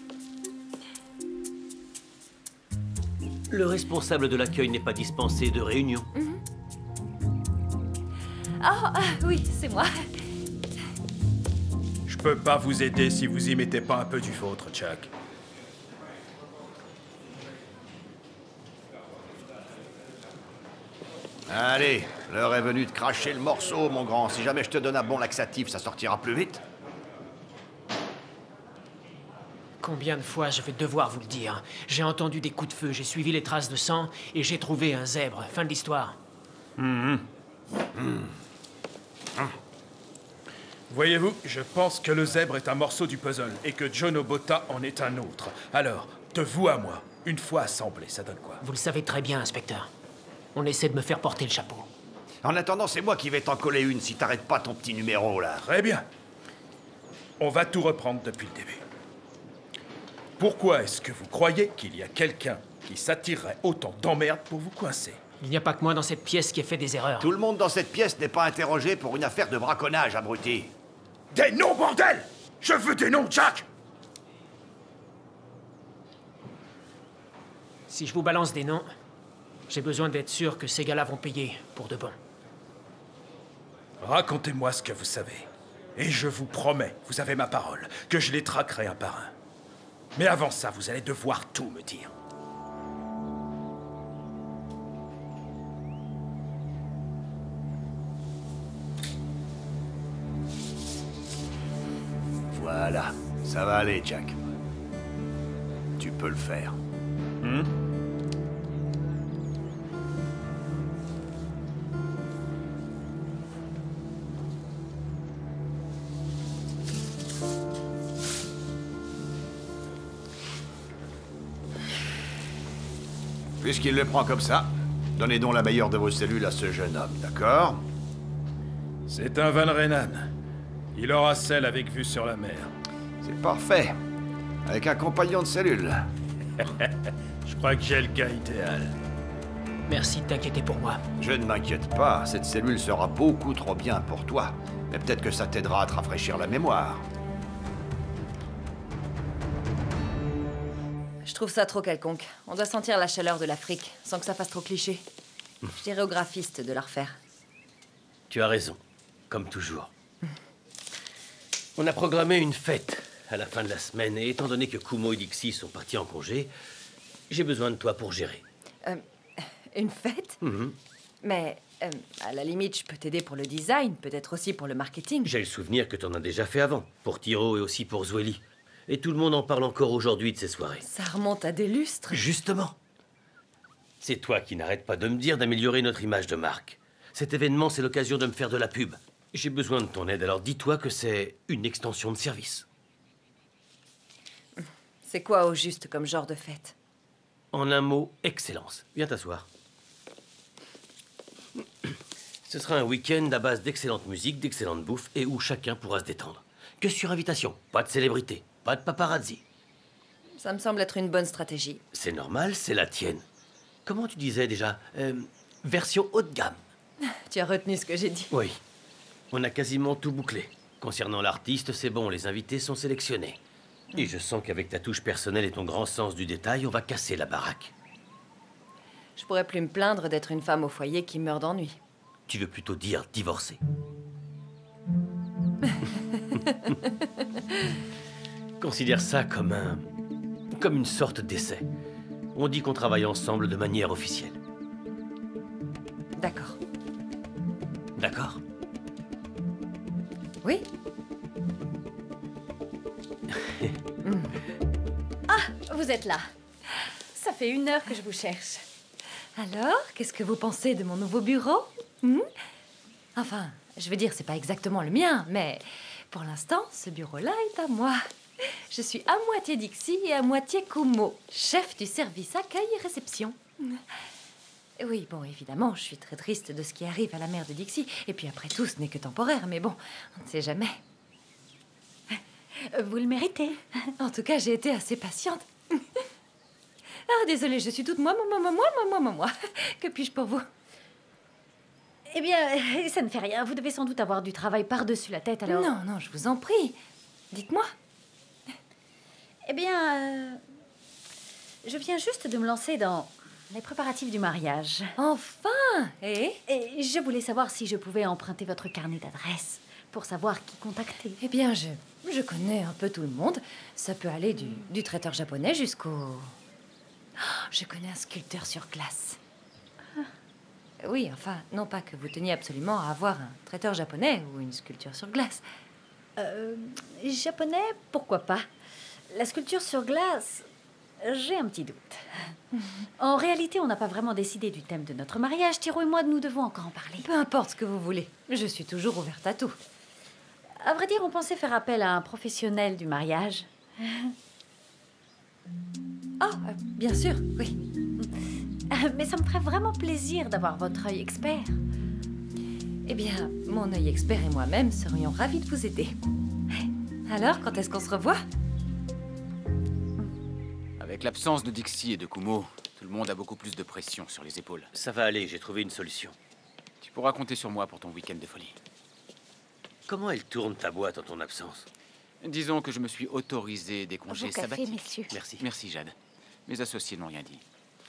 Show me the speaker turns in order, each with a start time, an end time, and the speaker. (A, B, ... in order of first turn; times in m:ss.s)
0:03.5-0:06.1 A
0:06.1-0:06.4 B
0:08.6-0:10.2 B
0:12.1-0:15.1 C
0:21.5-0:26.6 D
0:29.8-0:36.2 E
0:36.8-0:37.2 C
0:40.9-0:48.6 C
0:48.6-0:49.9 E
0:50.5-0:51.9 E
0:52.4-0:55.6 D
0:55.6-0:56.0 C
0:57.4-0:58.8 C
1:00.4-1:05.2 C
1:05.4-1:07.3 E
1:07.2-1:10.7 D
1:11.3-1:13.6 C
1:17.9-1:18.9 E
1:19.7-1:22.2 E
1:24.0-1:29.3 C
1:30.1-1:32.1 C
1:42.5-1:44.4 D
1:46.0-1:46.8 D
1:47.4-1:47.7 C
2:03.6-2:07.8 D
2:09.1-2:10.3 C
2:10.9-2:12.7 C
2:13.2-2:13.9 D
2:14.6-2:16.0 D
2:16.6-2:18.9 C
2:19.9-2:21.0 E
2:21.2-2:27.0 D
2:31.2-2:35.0 B
2:35.7-2:37.2 B
2:38.3-2:38.8 A
2:39.3-2:39.9 A
2:41.8-2:46.5 A
2:47.3-2:48.4 A
2:48.8-2:50.4 B
2:50.4-2:50.8 A
2:51.2-2:55.3 B
2:55.2-3:00.8 A
3:00.8-3:02.2 B
3:02.1-3:02.8 A
3:04.0-3:12.6 A
3:14.6-3:16.7 B
3:17.5-3:19.4 A
3:22.4-3:29.4 A
3:30.4-3:31.8 B
3:31.9-3:33.2 A
3:33.8-3:36.6 A
3:37.1-3:38.3 B
3:38.3-3:38.6 A
3:39.3-3:43.4 A
3:44.0-3:47.7 A
3:49.2-3:51.8 B
3:52.3-3:53.6 A
3:58.6-3:59.8 A
4:00.5-4:01.7 A
4:02.3-4:04.4 A
4:06.2-4:06.6 B
4:08.0-4:08.4 A
4:14.0-4:14.4 B
4:15.3-4:16.3 F
4:17.1-4:18.6 F
4:19.4-4:22.3 B
4:23.2-4:33.8 B
4:34.8-4:40.8 B
4:42.1-4:43.7 F
4:44.0-4:46.0 B
4:47.1-4:50.5 B
4:52.1-4:55.7 F
4:55.4-4:56.8 B
4:57.3-4:57.7 B
4:59.5-5:00.4 F
5:01.6-5:04.9 F
5:05.0-5:06.4 B
5:06.5-5:11.2 F
5:11.2-5:16.3 B
5:17.2-5:19.2 B
5:20.8-5:25.4 B
5:26.2-5:28.5 F
5:29.1-5:30.5 F
5:31.0-5:32.3 F
5:33.0-5:37.0 F
5:37.0-5:39.6 B
5:40.6-5:44.1 F
5:46.2-5:47.6 B
5:48.7-5:51.6 F
5:52.8-5:56.0 B
5:57.1-5:58.2 B
6:00.8-6:04.7 G
6:04.7-6:06.2 A
6:06.8-6:08.6 G
6:09.9-6:11.7 A
6:12.2-6:14.7 G
6:14.2-6:15.0 B
6:15.1-6:15.4 A
6:15.4-6:15.9 G
6:16.5-6:17.4 G